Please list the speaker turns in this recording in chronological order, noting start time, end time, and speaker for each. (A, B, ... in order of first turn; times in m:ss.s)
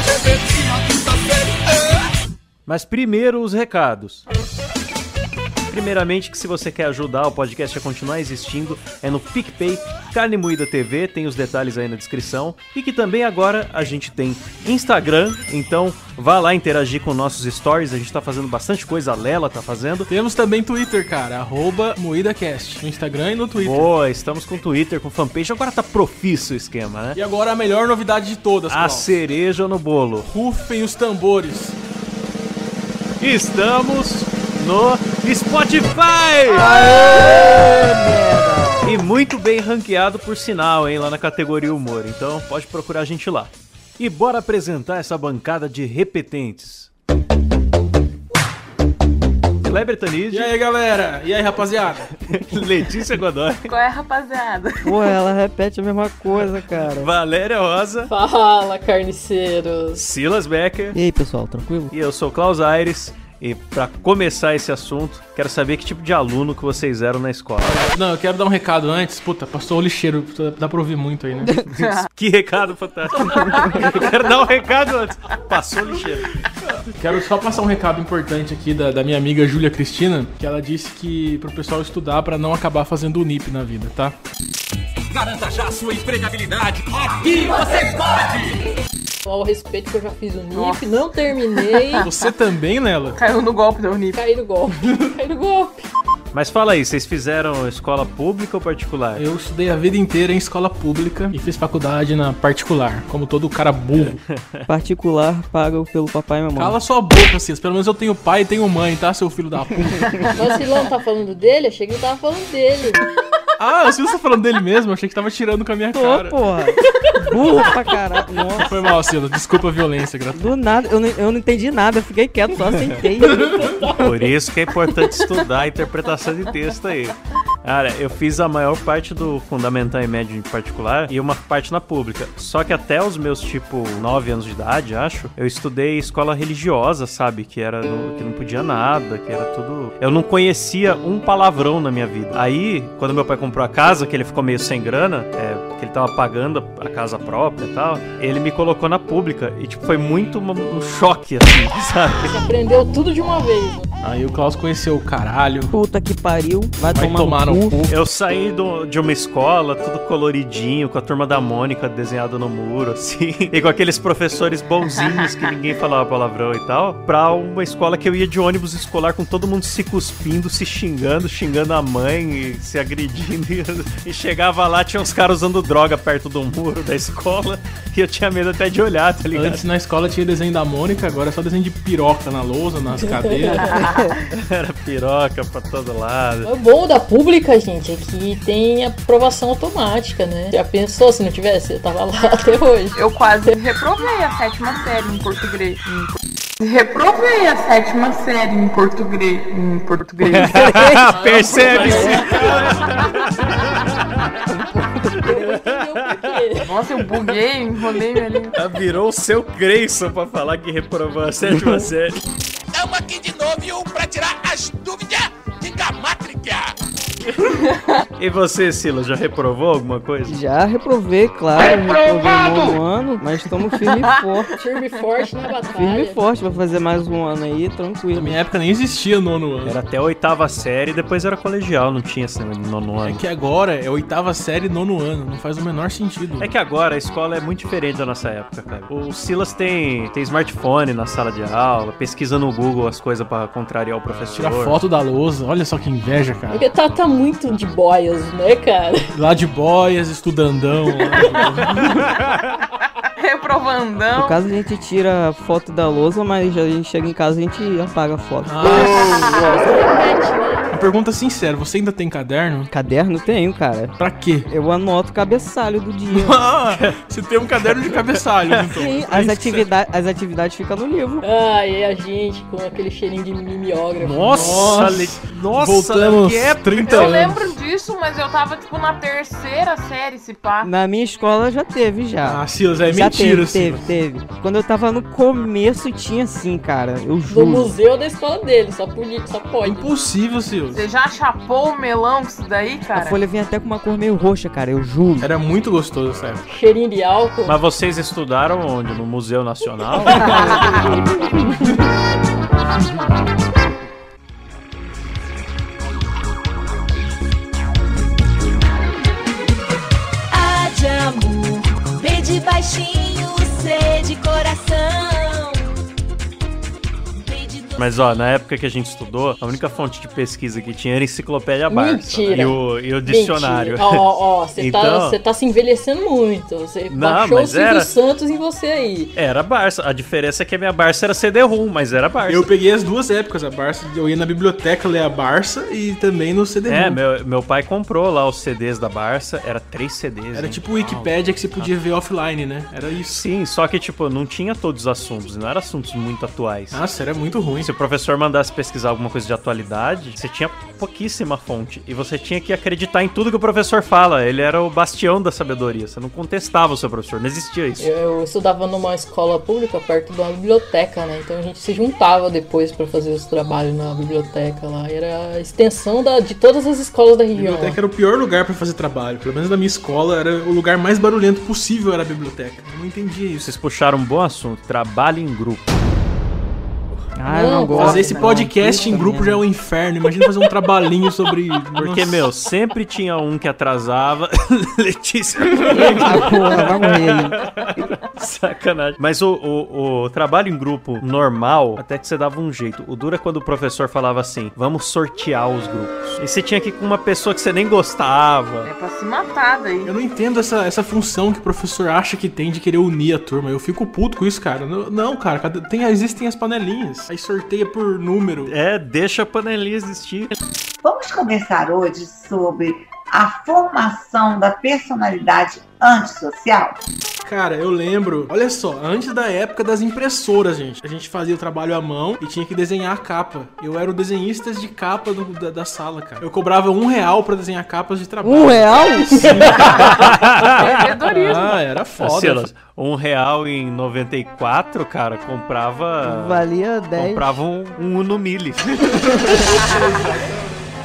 0:02.7-0:04.2 A
0:05.7-0:20.1 A
0:20.1-0:23.9 B
0:23.6-0:27.2 A
0:27.1-0:29.2 B
0:28.7-0:30.3 A
0:30.2-0:31.8 B
0:33.2-0:37.9 A
0:36.5-0:39.0 C
0:38.8-0:46.9 A
0:49.6-0:50.5 A
0:50.3-0:52.1 B
0:52.3-0:53.7 A
0:53.7-0:55.0 D
0:54.8-0:57.1 C
0:56.7-0:58.1 A
0:58.1-1:00.0 E
1:00.0-1:01.0 A
1:00.9-1:01.9 C
1:01.9-1:07.8 A
1:07.6-1:11.6 B
1:11.7-1:16.4 A
1:11.8-1:12.1 D
1:13.1-1:14.1 D
1:16.9-1:24.1 B
1:29.2-1:32.1 E
1:30.5-1:31.0 D
1:31.6-1:32.3 D
1:32.0-1:33.2 B
1:33.1-1:34.2 D
1:34.1-1:35.9 E
1:36.3-1:39.2 A
1:39.2-1:44.2 B
1:44.0-1:44.6 A
1:44.7-1:46.8 C
1:46.5-1:50.0 B
1:50.3-1:53.0 E
1:53.6-1:56.4 B
1:55.9-1:58.8 C
1:58.6-2:00.5 B
2:00.3-2:03.7 C
2:03.4-2:04.1 E
2:04.0-2:32.4 A
2:32.2-2:33.9 E
2:34.0-2:35.7 B
2:35.7-2:37.9 C
2:36.9-2:37.8 B
2:37.9-2:59.6 A
2:44.9-2:45.3 D
2:59.3-3:03.6 B
3:03.0-3:03.9 E
3:03.6-3:04.1 D
3:04.3-3:06.5 A
3:06.4-3:13.6 E
3:12.9-3:23.0 D
3:20.3-3:24.1 A
3:20.5-3:21.0 C
3:21.8-3:22.3 E
3:21.8-3:22.2 C
3:25.2-3:26.7 E
3:25.2-3:27.3 A
3:26.6-3:28.6 D
3:28.5-3:32.2 A
3:32.7-3:36.7 F
3:37.6-3:37.9 D
3:38.2-3:40.4 A
3:40.3-3:44.6 C
3:43.8-3:44.2 D
3:44.6-3:46.2 E
3:45.7-3:48.4 C
3:48.1-3:49.8 B
3:49.6-3:53.2 A
3:53.0-3:56.5 B
3:56.4-4:04.8 A
4:04.3-4:06.6 B
4:06.5-4:09.1 E
4:09.1-4:12.0 B
4:11.2-4:11.5 D
4:13.2-4:14.4 D
4:14.1-4:19.0 C
4:18.4-4:18.9 B
4:18.7-4:20.7 E
4:20.7-4:22.7 B
4:22.7-4:24.0 C
4:24.0-4:24.5 B
4:24.5-4:26.4 C
4:26.1-4:29.6 B
4:28.7-4:31.2 C
4:31.2-4:34.5 E
4:34.0-4:37.2 A
4:34.3-4:37.6 B
4:36.9-4:40.7 D
4:40.6-4:47.7 C
4:42.2-4:43.9 B
4:47.3-4:49.9 E
4:49.6-4:50.8 B
4:50.7-4:53.2 D
4:52.9-4:55.3 C
4:55.2-4:56.4 B
4:56.5-4:57.6 E
4:57.4-5:00.9 A
5:10.3-5:15.7 G
5:17.2-5:18.0 G
5:17.8-5:25.2 A
5:21.7-5:29.1 E
5:26.9-5:27.9 A
5:29.1-5:32.5 A
5:32.2-5:37.0 B
5:36.7-5:41.7 A
5:40.3-5:43.2 B
5:43.1-5:46.8 A
5:46.7-5:47.7 B
5:47.6-5:57.9 A
5:57.8-6:07.8 E
6:07.3-6:13.5 B
6:13.4-6:15.6 A
6:17.2-6:19.4 C
6:17.3-6:18.2 E
6:17.7-6:22.3 B
6:21.7-6:38.7 A
6:25.6-6:27.4 C
6:38.6-6:39.9 D
6:39.8-6:48.5 B
6:48.5-6:50.4 A
6:50.8-6:56.8 H
6:57.2-7:10.1 B
7:08.2-7:09.4 C
7:09.6-7:11.6 D
7:09.7-7:10.9 A
7:11.1-7:12.5 B
7:12.0-7:19.7 A
7:16.0-7:17.3 C
7:19.5-7:20.0 D